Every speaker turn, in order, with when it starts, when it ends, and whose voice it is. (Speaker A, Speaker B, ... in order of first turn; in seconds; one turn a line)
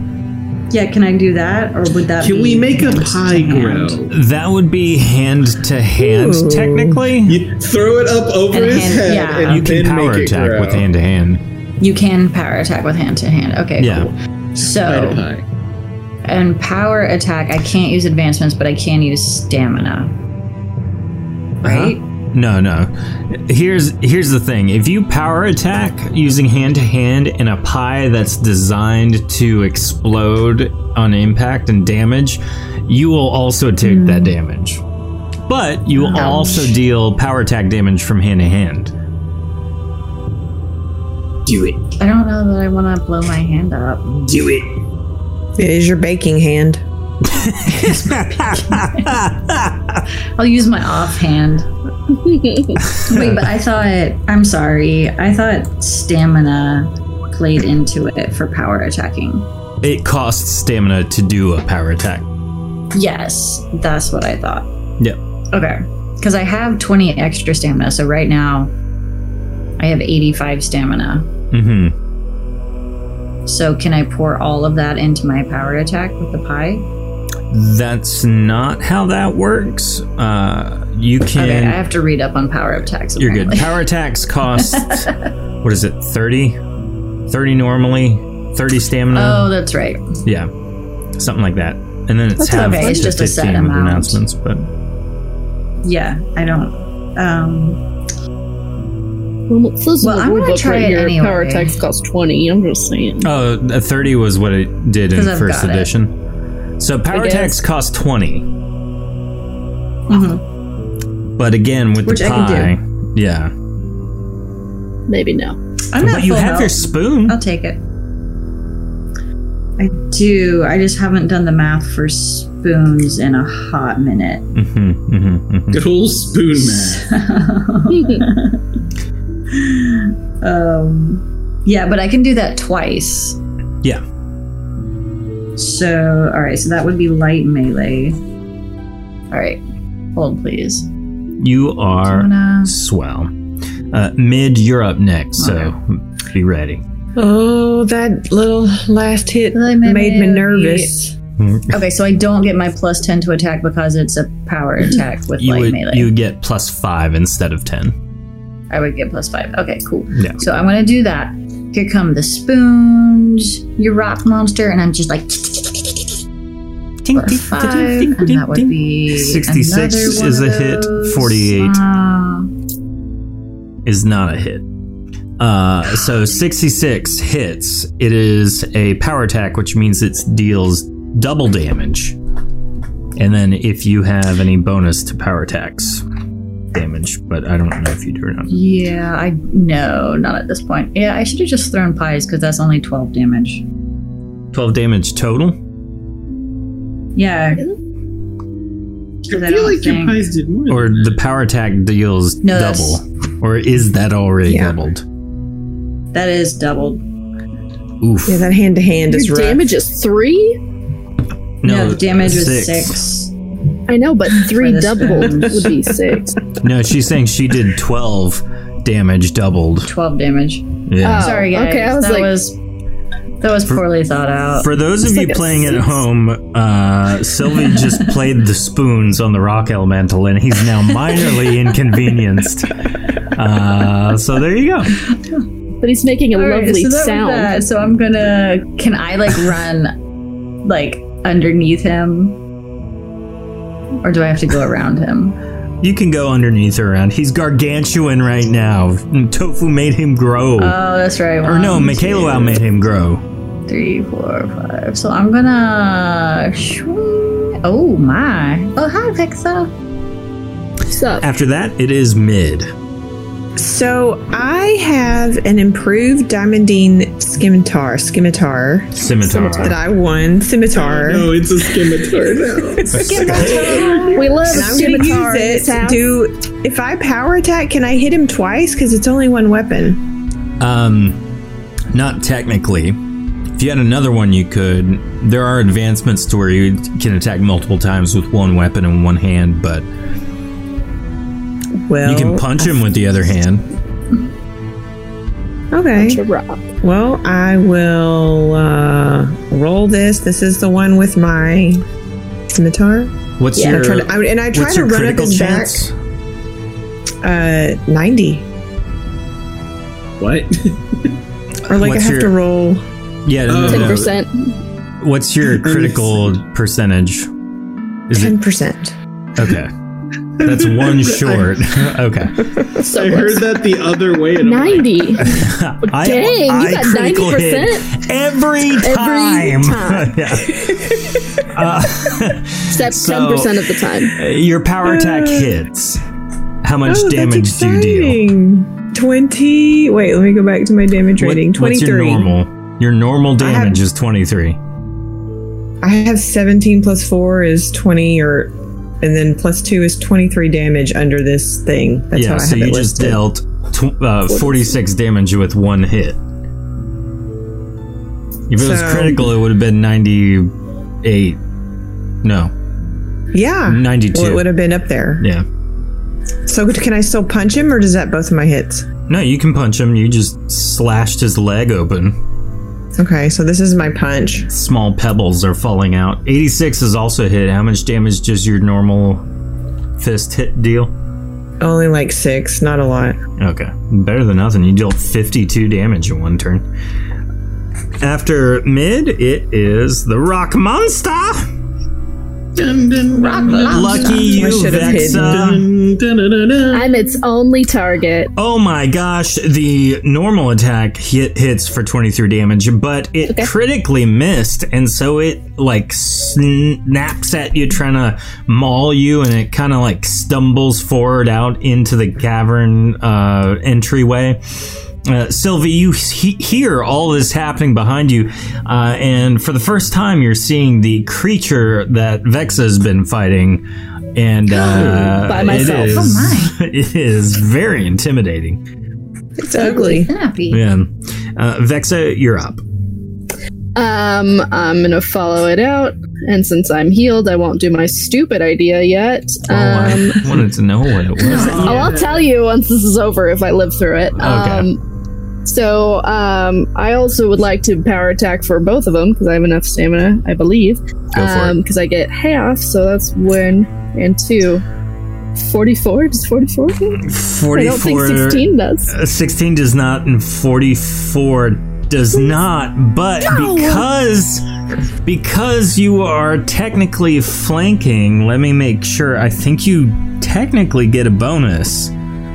Speaker A: 0.7-4.0
Speaker B: 2.2-4.1
Speaker C: 4.1-7.4
Speaker D: 6.0-7.1
Speaker B: 7.2-10.9
Speaker A: 8.5-9.7
Speaker C: 9.5-11.4
Speaker A: 11.8-15.2
Speaker C: 13.8-14.1
Speaker B: 14.7-15.4
Speaker A: 16.2-20.1
Speaker A: 21.6-22.0
Speaker C: 21.6-34.8
Speaker C: 35.5-38.9
Speaker D: 36.1-36.8
Speaker A: 36.1-36.5
Speaker C: 41.5-41.7
Speaker A: 42.0-44.4
Speaker C: 44.3-44.6
Speaker D: 45.6-46.8
Speaker C: 47.2-50.0
Speaker A: 48.5-49.1
Speaker A: 50.4-51.7
Speaker E: 52.1-52.8
Speaker C: 52.9-53.3
Speaker A: 53.0-59.5
Speaker C: 59.8-62.3
Speaker A: 62.9-64.7
Speaker A: 65.5-68.7
Speaker A: 69.8-71.3
Speaker C: 71.5-71.9
Speaker A: 73.5-76.8
Speaker C: 77.5-81.8
Speaker A: 81.3-83.8
Speaker C: 83.2-85.1
Speaker A: 84.6-85.3
Speaker C: 85.6-86.6
Speaker C: 87.3-89.5
Speaker A: 89.1-90.1
Speaker C: 90.2-90.5
Speaker C: 91.2-94.7
Speaker E: 92.4-93.2
Speaker A: 92.5-94.2
Speaker A: 95.8-97.8
Speaker E: 99.5-103.3
Speaker A: 100.0-101.8
Speaker C: 103.2-106.1
Speaker A: 105.1-105.9
Speaker C: 106.8-108.5
Speaker E: 107.1-107.5
Speaker A: 110.1-110.4
Speaker C: 111.4-113.5
Speaker A: 112.0-112.7
Speaker E: 115.1-115.6
Speaker A: 115.9-117.8
Speaker C: 116.0-117.4
Speaker A: 119.8-124.5
Speaker C: 124.5-125.9
Speaker B: 125.7-127.1
Speaker A: 126.5-128.6
Speaker E: 127.9-128.2
Speaker A: 129.5-133.4
Speaker A: 135.6-138.2
Speaker A: 139.3-139.6
Speaker A: 140.2-140.9
Speaker C: 141.4-143.3
Speaker A: 142.1-142.7
Speaker C: 143.9-146.8
Speaker A: 145.4-145.7
Speaker D: 147.2-151.1
Speaker A: 149.5-151.0
Speaker C: 151.4-151.7
Speaker A: 151.7-156.1
Speaker C: 155.4-157.9
Speaker A: 158.7-166.1
Speaker C: 160.1-160.4
Speaker C: 167.0-171.8
Speaker A: 167.2-172.5
Speaker C: 173.8-174.7
Speaker C: 175.4-182.2
Speaker C: 183.2-186.0
Speaker C: 186.7-188.6
Speaker A: 188.5-193.6
Speaker C: 194.5-195.6
Speaker A: 197.2-197.7
Speaker B: 199.3-201.2
Speaker A: 199.3-200.2
Speaker C: 200.7-205.0
Speaker A: 202.4-203.0
Speaker D: 204.5-204.8
Speaker A: 206.1-207.0
Speaker C: 208.0-208.5
Speaker D: 208.3-209.7
Speaker E: 209.1-210.6
Speaker C: 211.6-213.0
Speaker A: 211.6-213.3
Speaker E: 213.9-216.4
Speaker A: 214.4-215.7
Speaker C: 216.6-219.9
Speaker A: 219.9-222.6
Speaker C: 220.9-221.4
Speaker E: 221.0-222.4
Speaker A: 223.4-224.7
Speaker C: 224.6-235.0
Speaker E: 225.0-226.0
Speaker A: 235.0-235.4
Speaker E: 235.8-237.6
Speaker A: 236.3-239.9
Speaker A: 240.6-242.4
Speaker A: 244.0-245.4
Speaker C: 245.8-250.8
Speaker A: 250.6-252.6
Speaker C: 251.4-253.2
Speaker A: 253.7-259.7
Speaker E: 260.9-261.2
Speaker C: 261.2-262.7
Speaker D: 263.6-268.9
Speaker C: 268.9-269.8
Speaker E: 269.2-269.8
Speaker D: 269.6-280.0
Speaker B: 270.7-274.1
Speaker C: 272.9-273.6
Speaker A: 272.9-274.8
Speaker E: 274.1-276.0
Speaker C: 280.6-281.2
Speaker C: 281.9-283.0
Speaker C: 283.6-289.9
Speaker D: 291.9-292.8
Speaker C: 292.0-293.6
Speaker D: 295.7-296.2
Speaker E: 295.9-296.7
Speaker D: 296.8-301.8
Speaker D: 302.6-305.9
Speaker C: 303.4-305.9
Speaker E: 303.6-303.8
Speaker D: 307.2-308.5
Speaker B: 310.2-311.2
Speaker C: 311.7-312.4
Speaker D: 311.7-312.8
Speaker C: 313.2-314.1
Speaker B: 313.5-314.0
Speaker E: 313.7-314.6
Speaker C: 315.0-317.3
Speaker B: 315.6-316.3
Speaker C: 318.1-318.4
Speaker D: 318.1-318.9
Speaker C: 319.4-319.7
Speaker C: 320.4-322.5
Speaker B: 320.4-321.5
Speaker B: 322.8-325.2
Speaker E: 322.8-323.6
Speaker E: 324.4-327.9
Speaker C: 325.2-333.5
Speaker E: 328.8-330.2
Speaker E: 332.7-334.2
Speaker C: 334.1-336.0
Speaker D: 334.9-335.5
Speaker C: 336.6-338.2
Speaker D: 336.9-342.3
Speaker C: 341.2-344.6
Speaker D: 343.4-343.8
Speaker D: 345.8-353.2
Speaker C: 352.1-356.2
Speaker E: 354.3-354.7
Speaker C: 358.5-360.5
Speaker D: 358.6-359.3
Speaker C: 361.0-361.4
Speaker C: 362.2-362.5
Speaker D: 363.3-365.2
Speaker C: 363.7-364.5
Speaker D: 366.5-368.9
Speaker C: 369.1-372.2
Speaker D: 373.0-374.5
Speaker C: 374.5-379.2
Speaker C: 380.0-380.9
Speaker D: 381.6-383.2
Speaker C: 383.4-386.6
Speaker C: 388.0-391.5
Speaker B: 392.6-396.9
Speaker A: 393.1-394.6
Speaker C: 393.6-395.6
Speaker D: 394.0-395.6
Speaker E: 396.7-398.3
Speaker C: 398.4-423.6
Speaker C: 424.1-428.6
Speaker A: 424.5-426.6
Speaker E: 425.2-426.2
Speaker D: 429.4-430.1
Speaker A: 429.6-430.6
Speaker C: 430.5-432.6
Speaker E: 433.8-440.2
Speaker C: 439.5-441.9
Speaker B: 441.2-442.3
Speaker A: 441.3-441.7
Speaker E: 441.3-444.8
Speaker C: 444.2-444.7
Speaker E: 445.5-454.6
Speaker C: 451.1-451.6
Speaker E: 455.4-457.0
Speaker C: 457.0-464.4
Speaker E: 457.5-458.9
Speaker D: 463.4-463.8
Speaker C: 465.1-471.9